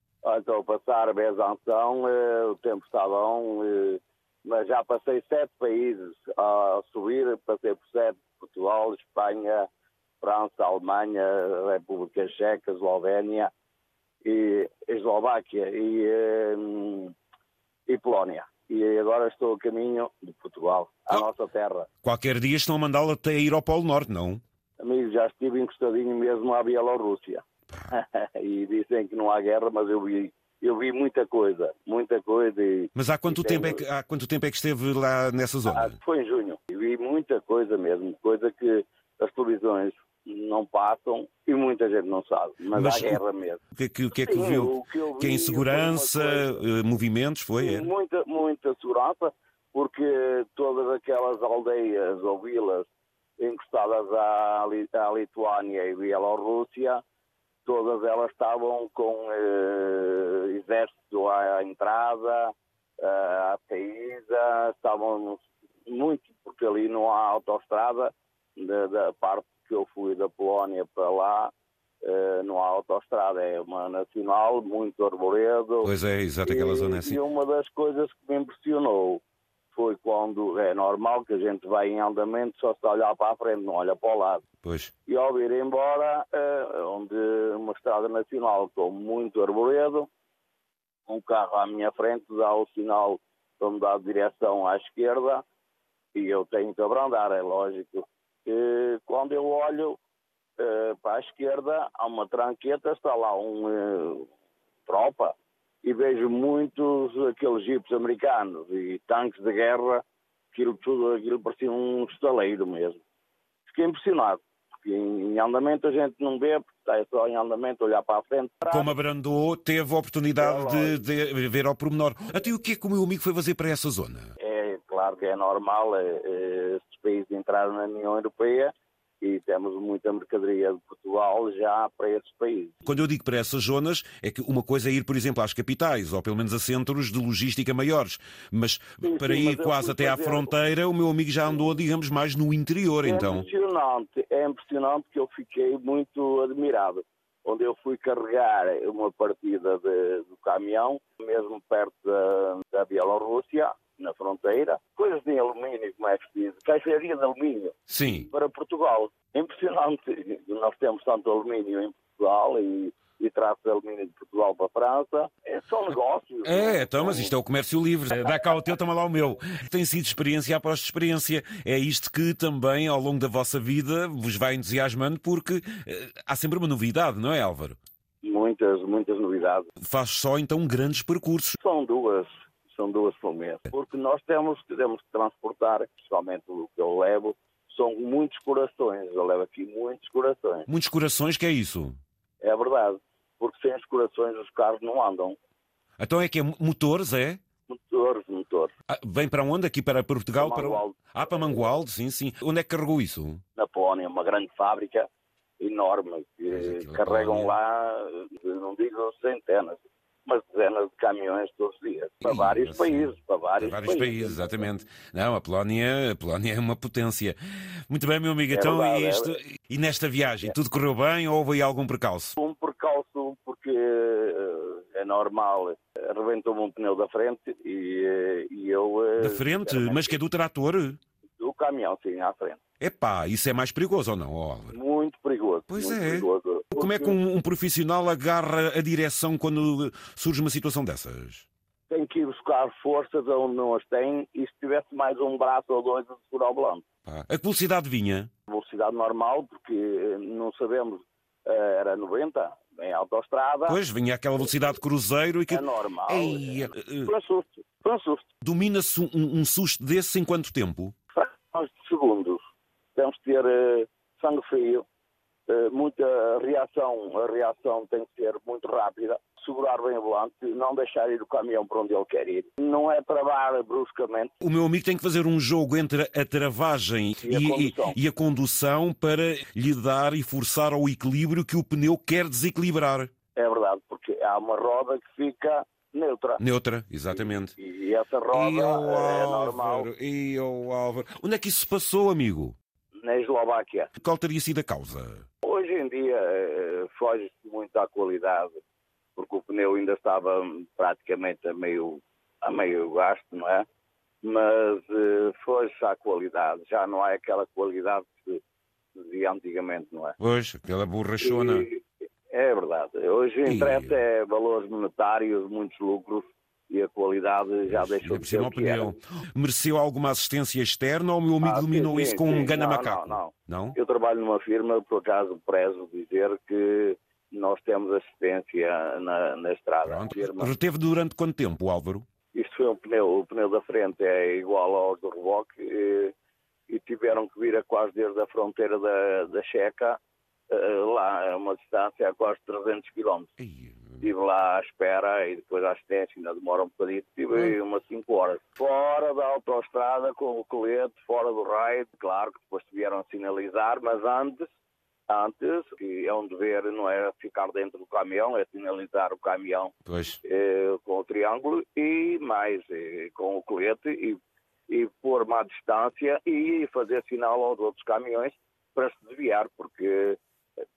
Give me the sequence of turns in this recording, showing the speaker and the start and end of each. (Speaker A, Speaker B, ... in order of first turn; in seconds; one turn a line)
Speaker A: 0.2-9.7
Speaker A: 10.2-13.5
Speaker A: 14.2-17.1
Speaker A: 17.9-21.9
Speaker B: 22.0-24.4
Speaker A: 24.8-33.8
Speaker B: 32.9-35.9
Speaker A: 35.7-43.6
Speaker B: 42.7-43.2
Speaker B: 43.7-47.9
Speaker A: 44.2-46.6
Speaker A: 47.6-57.0
Speaker A: 57.6-75.9
Speaker B: 75.8-77.2
Speaker A: 76.5-79.2
Speaker A: 79.7-84.5
Speaker B: 84.6-84.9
Speaker A: 85.1-90.1
Speaker A: 91.1-95.4
Speaker A: 96.1-100.0
Speaker A: 100.6-104.3
Speaker A: 104.9-113.0
Speaker A: 113.7-118.9
Speaker B: 118.7-124.3
Speaker A: 120.4-121.0
Speaker A: 124.4-133.0
Speaker B: 132.8-143.4
Speaker A: 139.0-140.5
Speaker A: 143.0-157.8
Speaker B: 157.9-158.3
Speaker A: 158.3-167.3
Speaker B: 166.4-177.8
Speaker A: 178.2-179.7
Speaker B: 179.8-181.6
Speaker A: 181.6-190.7
Speaker B: 190.7-192.0
Speaker A: 192.4-195.4
Speaker B: 196.0-197.4
Speaker A: 197.7-198.7
Speaker B: 198.9-203.4
Speaker A: 200.4-201.5
Speaker A: 203.6-205.1
Speaker A: 205.6-214.5
Speaker B: 206.5-207.6
Speaker B: 212.2-217.4
Speaker B: 217.9-222.4
Speaker A: 218.5-219.4
Speaker A: 222.4-230.2
Speaker B: 229.2-231.0
Speaker A: 231.4-232.6
Speaker B: 232.8-234.8
Speaker A: 234.7-237.2
Speaker B: 235.7-241.5
Speaker A: 241.9-246.8
Speaker B: 247.1-248.3
Speaker A: 248.5-253.8
Speaker B: 253.7-257.1
Speaker A: 255.5-258.3
Speaker B: 258.4-260.9
Speaker A: 261.1-262.4
Speaker A: 262.9-264.9
Speaker A: 265.5-274.4
Speaker B: 274.4-283.1
Speaker A: 277.2-278.0
Speaker A: 283.4-286.4
Speaker B: 286.4-287.6
Speaker A: 287.1-289.9
Speaker B: 288.3-292.6
Speaker A: 293.0-293.9
Speaker B: 294.0-295.2
Speaker A: 295.4-298.6
Speaker A: 299.2-303.7
Speaker A: 304.2-308.4
Speaker A: 309.0-310.2
Speaker B: 310.2-311.7
Speaker A: 311.2-318.9
Speaker B: 313.4-314.0
Speaker B: 317.7-323.8
Speaker A: 321.4-330.6
Speaker B: 329.8-332.1
Speaker A: 332.3-336.1
Speaker A: 336.7-340.0
Speaker A: 340.5-343.3
Speaker B: 343.4-344.1
Speaker A: 344.0-354.5
Speaker A: 355.1-370.2
Speaker B: 359.9-360.2